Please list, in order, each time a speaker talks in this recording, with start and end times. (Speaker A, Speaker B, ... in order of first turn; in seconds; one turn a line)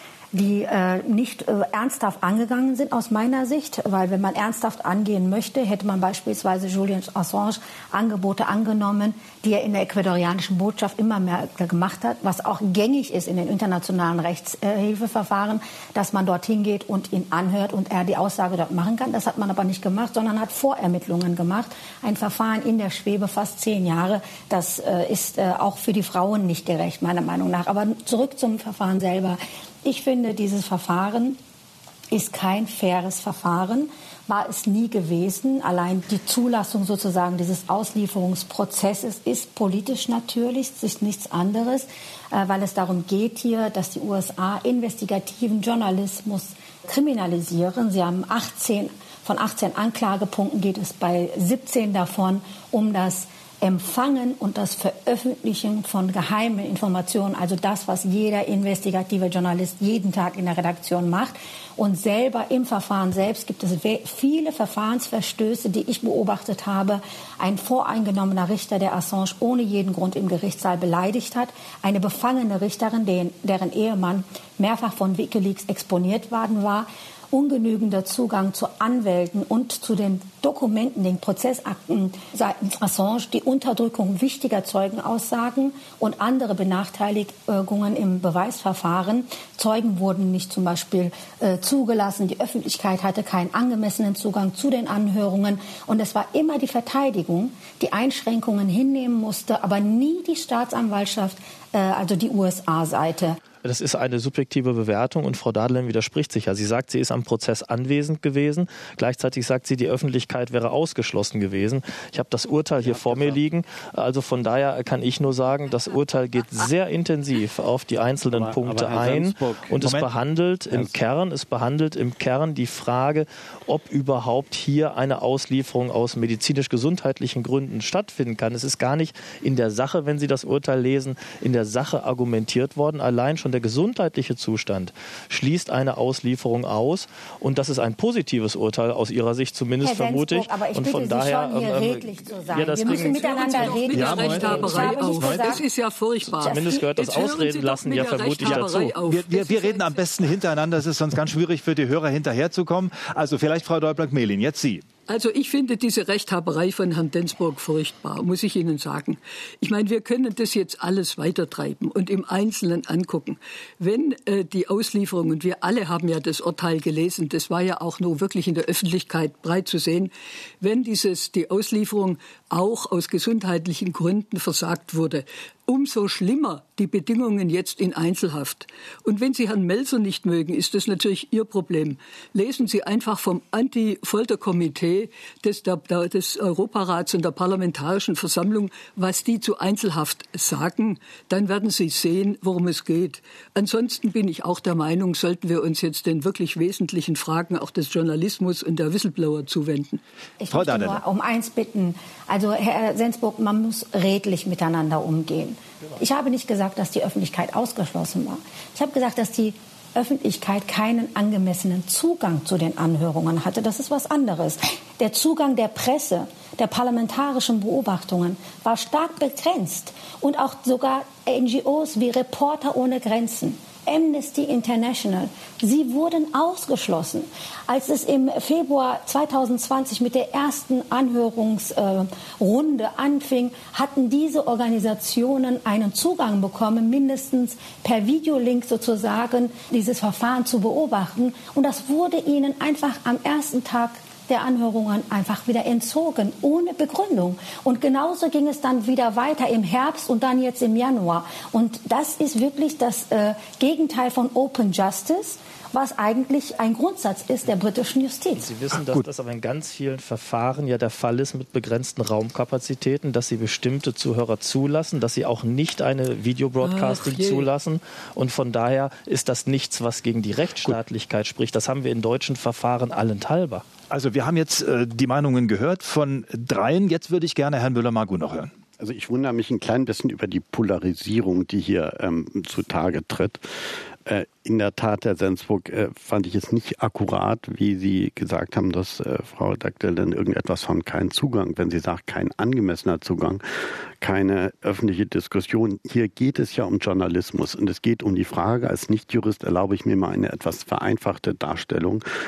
Speaker A: 0.3-31.4
Speaker A: 32.1-103.4
Speaker B: 103.6-144.8
Speaker C: 112.8-113.4
Speaker C: 118.3-119.7
Speaker D: 118.8-119.1
Speaker D: 119.7-120.1
Speaker A: 139.8-145.6
Speaker E: 142.6-150.0
Speaker D: 143.9-145.6
Speaker B: 146.2-149.0
Speaker D: 148.4-154.8
Speaker E: 155.1-200.0
Speaker A: 200.4-258.5
Speaker D: 200.5-201.0
Speaker B: 258.4-273.6
Speaker D: 258.7-259.0
Speaker E: 266.6-267.5
Speaker D: 273.9-278.5
Speaker C: 278.8-283.5
Speaker C: 284.0-293.4
Speaker C: 294.0-302.0